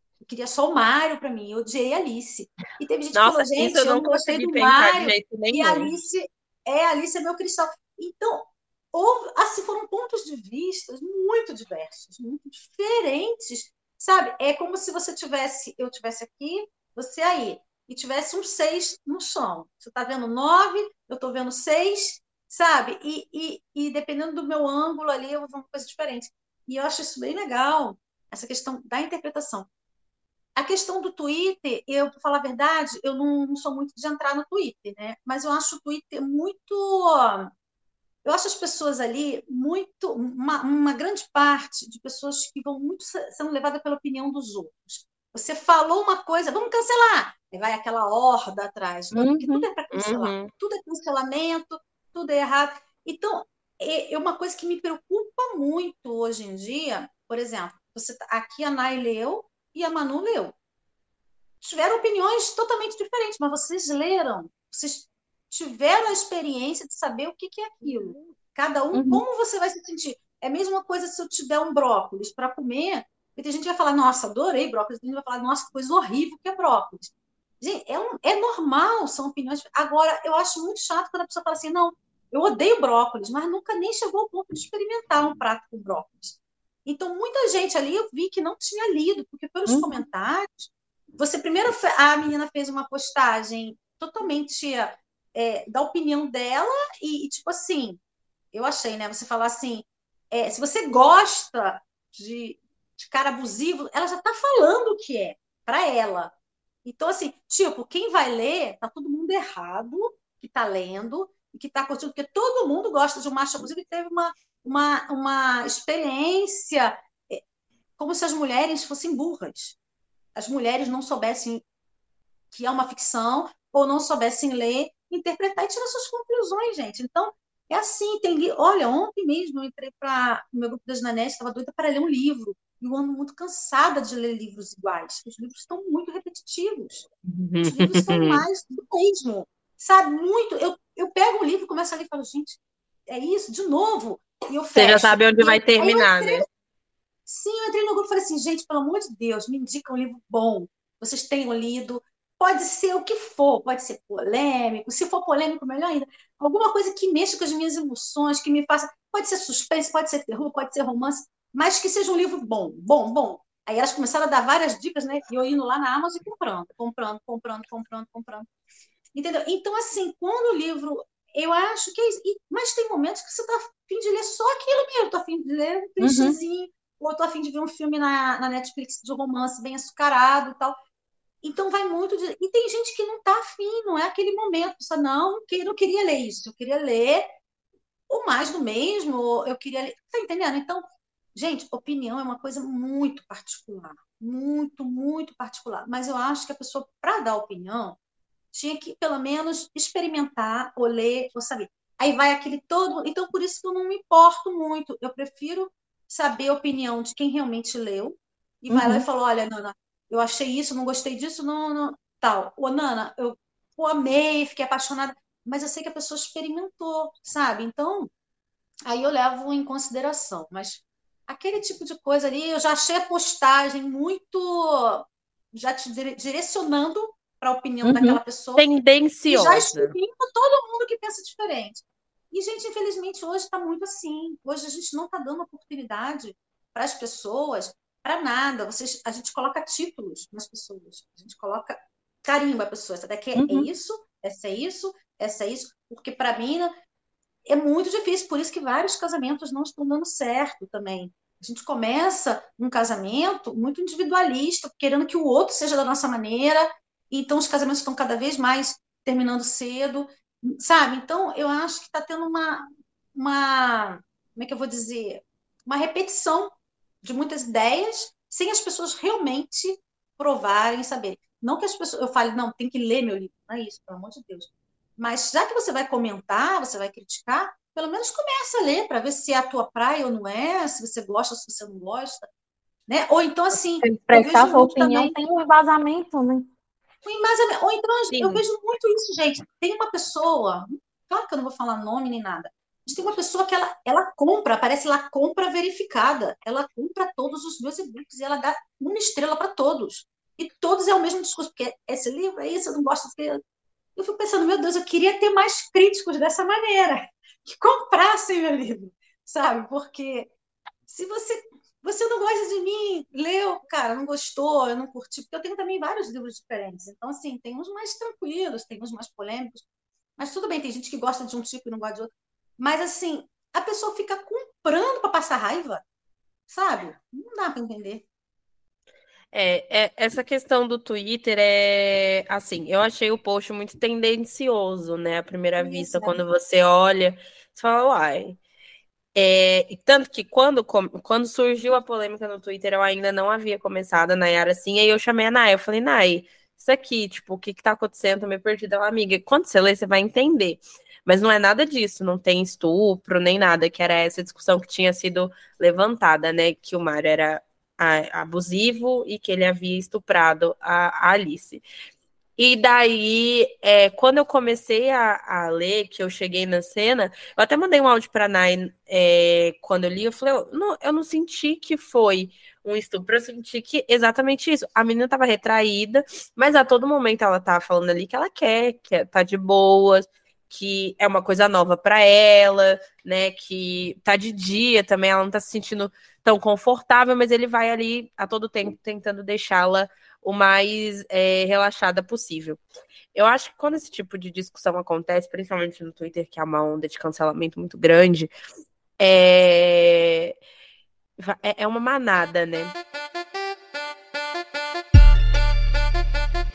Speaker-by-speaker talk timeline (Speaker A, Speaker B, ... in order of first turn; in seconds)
Speaker A: 0.2-29.7, 30.6-37.5, 38.2-60.5, 61.6-98.0, 98.5-106.3, 106.8-117.4, 118.0-119.8, 120.3-121.6, 122.5-137.1, 137.6-146.5, 147.3-168.5, 169.1-180.8, 181.4-187.3, 188.1-198.0, 198.5-218.1, 218.8-228.7, 229.3-246.7, 247.4-282.3, 282.9-285.1, 287.0-303.4, 303.9-310.3, 310.9-319.6, 320.2-325.8, 326.5-328.0, 335.6-336.2
Speaker B: 3.1-5.9, 49.9-50.5, 137.2-138.4, 144.7-146.4, 228.6-229.9, 288.1-288.4, 329.3-338.4, 339.1-361.6, 362.4-392.6, 393.1-398.3, 399.0-400.3, 401.2-402.7
Speaker C: 49.1-49.7, 68.9-69.2, 89.7-89.9, 176.0-176.4, 208.7-209.1, 227.8-228.2, 243.3-243.7, 283.8-286.5